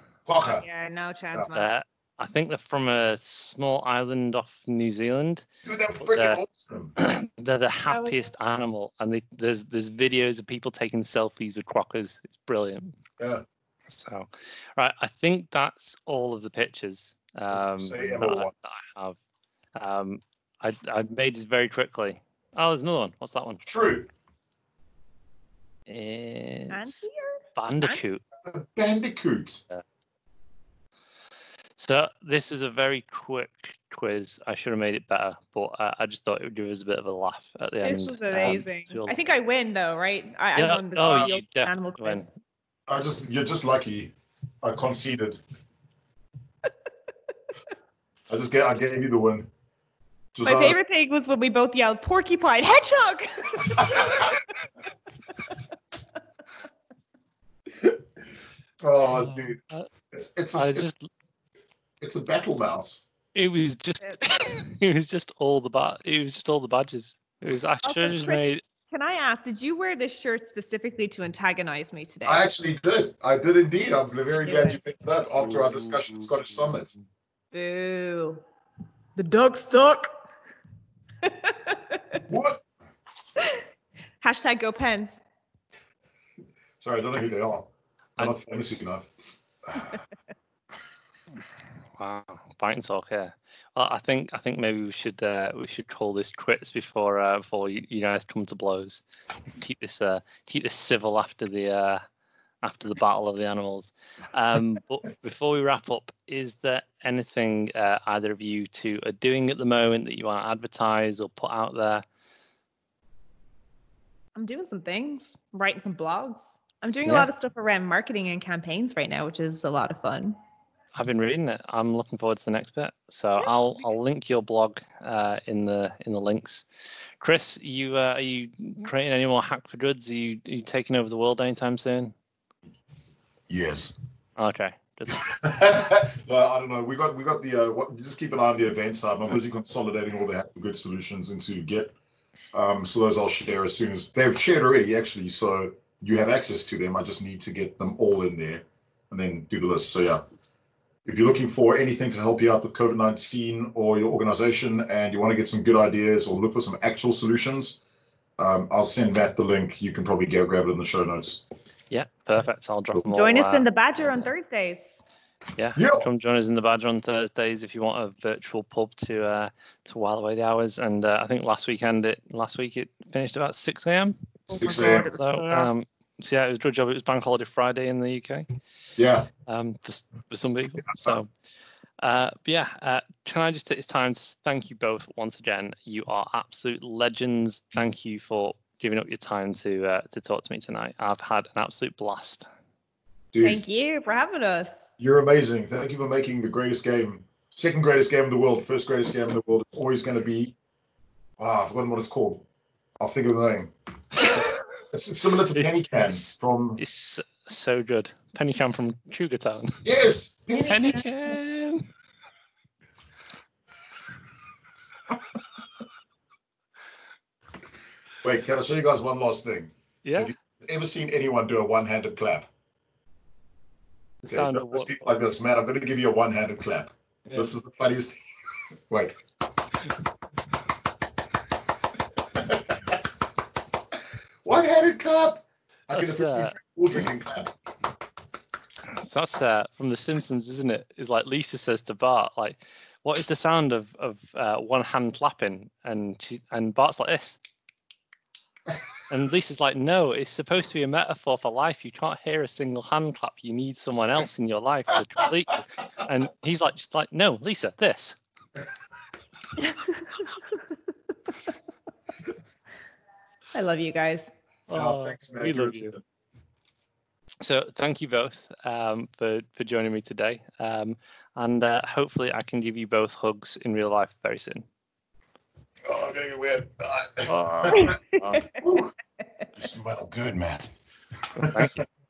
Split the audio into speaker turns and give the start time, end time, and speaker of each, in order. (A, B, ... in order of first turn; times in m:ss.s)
0:00.3-0:00.7 A
0:00.4-0:01.7 B
0:01.5-0:05.5 C
0:05.6-0:07.0 A
0:06.0-0:06.4 C
0:07.0-0:13.0 C
0:13.2-0:13.4 A
0:13.9-0:19.2 C
0:17.5-0:18.5 A
0:19.8-0:23.7 C
0:23.6-0:24.1 A
0:25.9-0:27.0 C
0:26.7-0:28.0 B
0:27.6-0:28.2 C
0:28.5-0:29.6 A
0:31.8-0:39.2 C
0:37.8-0:42.3 B
0:40.6-0:42.3 C
0:42.9-0:45.4 A
0:48.3-0:49.5 A
0:50.4-0:50.8 A
0:50.4-0:54.4 B
0:53.6-0:54.3 A
0:58.8-0:59.6 A
0:59.2-0:59.9 C
1:00.1-1:00.9 A
1:00.6-1:01.1 C
1:02.0-1:03.0 A
1:03.3-1:08.6 C
1:07.8-1:12.4 B
1:12.3-1:17.0 A
1:14.4-1:14.8 B
1:17.5-1:18.4 B
1:19.2-1:20.1 B
1:21.2-1:22.2 B
1:22.3-1:22.6 A
1:24.2-1:25.2 B
1:26.8-1:29.1 A
1:29.6-1:30.0 A
1:32.0-1:39.0 C
1:39.5-1:42.0 C
1:42.6-1:52.0 C
1:54.4-2:00.4 B
2:01.0-2:12.1 C
2:03.4-2:03.8 B
2:13.5-2:14.0 A
2:14.4-2:15.3 C
2:15.1-2:21.9 A
2:22.5-2:30.2 A
2:31.1-2:37.8 A
2:38.4-2:41.4 A
2:41.9-2:44.3 C
2:43.1-2:45.0 B
2:45.6-2:58.5 C
2:45.8-2:46.0 A
2:54.5-2:55.1 A
2:54.5-2:55.7 B
2:59.0-2:59.3 A
2:59.5-3:01.3 C
3:02.0-3:12.5 C
3:13.3-3:13.6 A
3:13.4-3:14.9 B
3:15.0-3:20.6 A
3:21.4-3:22.5 A
3:23.0-3:24.4 A
3:24.9-3:26.8 A
3:25.5-3:29.8 C
3:29.8-3:31.0 A
3:30.7-3:31.9 C
3:38.2-3:42.5 A
3:40.0-3:40.3 C
3:44.2-3:45.0 C
3:44.3-3:48.2 A
3:48.9-3:49.2 A
3:52.4-3:53.0 A
3:54.4-3:57.5 A
3:55.9-3:56.6 C
3:58.9-4:07.4 C
4:09.1-4:18.2 C
4:19.6-4:20.3 B
4:23.5-4:24.3 B
4:24.7-4:26.0 C
4:24.7-4:25.9 A
4:27.4-4:34.6 C
4:35.8-4:38.0 A
4:37.3-4:38.5 C
4:38.6-4:38.9 A
4:39.6-4:40.7 A
4:41.4-4:41.8 A
4:41.4-4:41.8 C